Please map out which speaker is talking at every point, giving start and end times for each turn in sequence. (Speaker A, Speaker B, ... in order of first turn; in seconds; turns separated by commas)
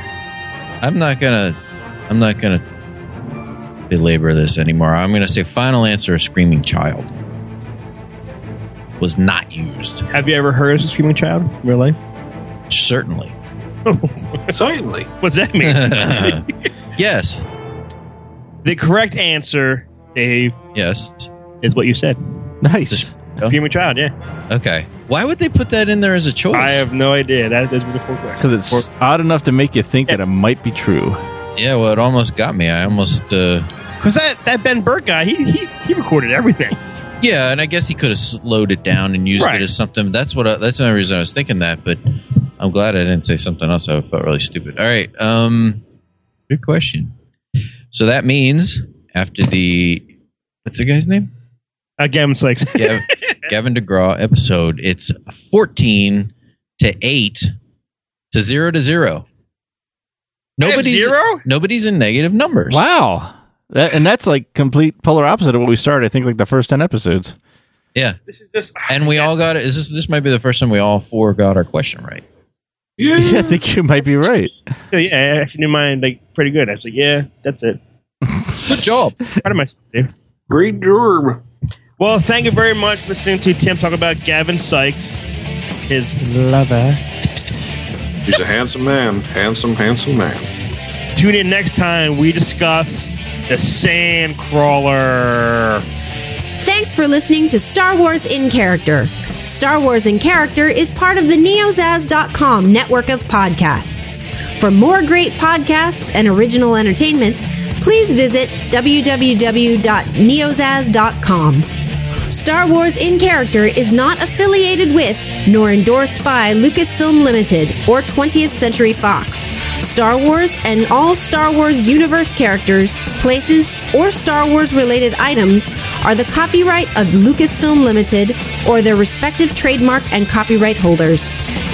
Speaker A: 0.8-1.6, Speaker A: 2.1-2.6, Speaker A: 3.9-7.1, Speaker A: 9.0-10.1, Speaker B: 10.1-12.0, Speaker A: 12.7-13.3, Speaker B: 13.9-14.5, Speaker C: 14.5-15.1, Speaker B: 15.2-16.5, Speaker A: 15.6-16.4, Speaker A: 17.0-17.4, Speaker B: 18.6-20.6, Speaker A: 20.7-21.3, Speaker B: 21.6-22.2, Speaker D: 22.6-23.1, Speaker A: 22.9-23.6, Speaker B: 23.4-24.1, Speaker A: 24.5-26.9, Speaker B: 26.5-28.9, Speaker D: 28.4-31.2, Speaker A: 31.6-33.7, Speaker B: 34.0-36.8, Speaker A: 37.2-45.8, Speaker B: 39.4-39.7, Speaker A: 46.5-47.1, Speaker A: 47.9-50.0, Speaker A: 50.6-51.3, Speaker B: 52.0-53.2, Speaker A: 52.8-57.5, Speaker A: 58.3-59.2, Speaker A: 60.6-62.8, Speaker B: 60.6-61.4, Speaker D: 62.7-67.3, Speaker B: 68.3-69.3, Speaker A: 68.9-72.2, Speaker C: 73.0-73.6, Speaker D: 73.2-74.6, Speaker B: 74.9-77.8, Speaker A: 78.7-79.2, Speaker B: 79.3-80.1, Speaker C: 80.5-81.4, Speaker B: 82.0-85.2, Speaker B: 85.8-87.0, Speaker C: 88.3-90.5, Speaker B: 91.2-95.8, Speaker E: 96.6-111.7, Speaker E: 112.3-131.3